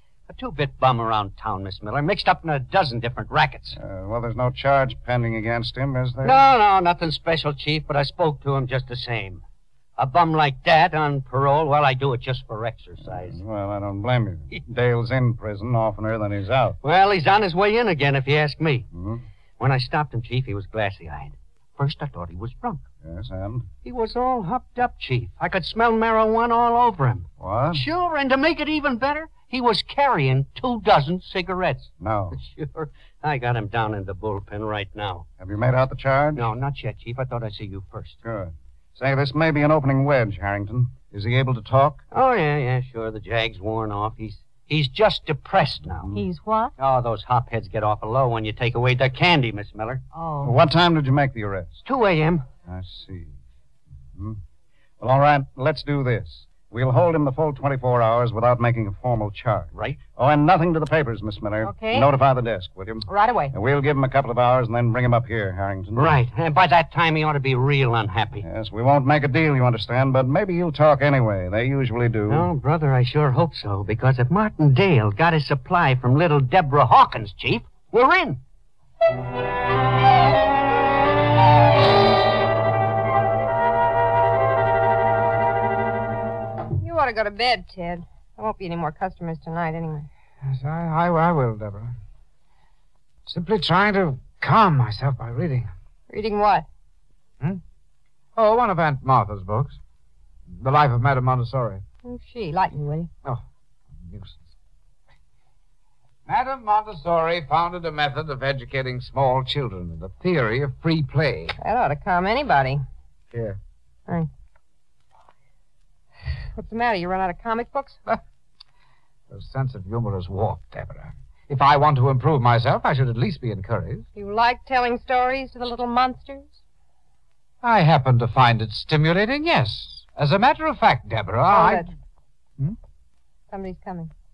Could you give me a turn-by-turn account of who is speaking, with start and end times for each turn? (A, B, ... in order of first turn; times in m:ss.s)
0:00.3-0:03.8 A
0:03.7-0:06.5 B
0:06.2-0:09.4 A
0:10.0-0:13.4 A
0:13.0-0:16.8 B
0:16.8-0:18.9 A
0:18.9-0:19.2 B
0:19.6-0:22.8 A
0:23.0-0:23.7 B
0:23.8-0:35.2 A
0:27.4-0:27.8 B
0:32.0-0:32.4 B
0:35.4-0:36.5 B
0:36.4-0:38.2 A
0:38.2-0:42.0 B
0:42.1-0:46.1 A
0:46.1-0:46.7 C
0:46.8-0:50.0 A
0:50.1-0:50.5 C
0:50.4-0:51.8 B
0:51.8-0:52.4 A
0:52.6-0:53.3 B
0:54.1-0:54.4 B
0:55.0-1:06.2 B
0:59.7-1:00.0 A
1:01.6-1:02.1 C
1:03.1-1:03.5 C
1:05.9-1:08.4 A
1:08.4-1:12.5 B
1:12.3-1:18.4 A
1:26.8-1:30.1 D
1:30.4-1:32.0 E
1:33.2-1:35.7 E
1:36.1-1:36.6 D
1:38.4-1:39.8 E
1:40.6-1:41.8 E
1:42.0-1:43.1 D
1:44.0-1:44.5 E
1:46.2-1:51.6 E
1:51.6-1:52.8 D
1:53.3-1:53.6 E
1:56.5-1:58.0 D
1:59.3-2:04.0 E
2:04.2-2:06.6 D
2:07.6-2:11.9 E
2:11.5-2:11.9 D
2:13.5-2:14.1 D